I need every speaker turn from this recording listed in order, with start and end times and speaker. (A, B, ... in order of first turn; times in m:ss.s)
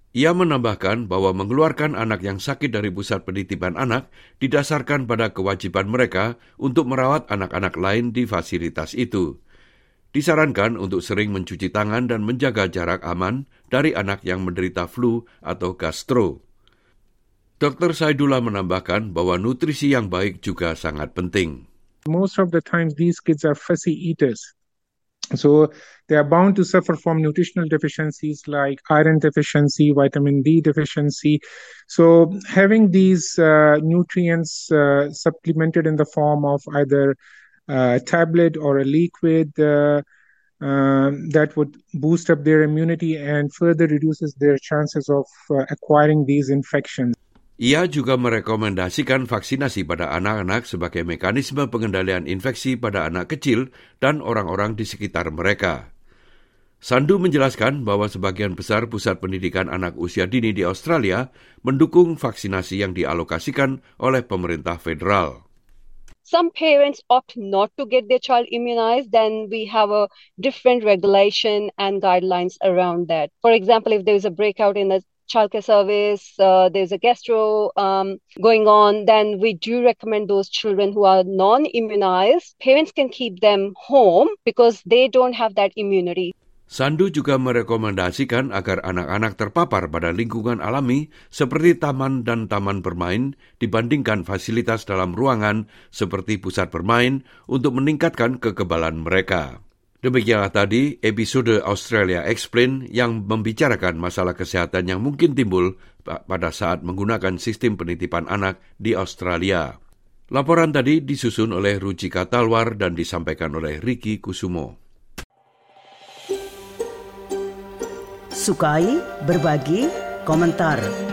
0:00.2-0:09.2 A
0:10.1-0:16.4 A
0:17.6-0:21.6 A
0:22.1-0:24.5 B
0:25.3-0:37.2 B
0:37.7-0:40.0 B
0:40.6-0:47.2 B
0:47.6-0:55.8 A
0:56.8-1:05.4 A
1:06.3-1:26.3 C
1:26.7-1:49.7 A
1:50.3-1:54.8 A
1:58.3-2:00.9 D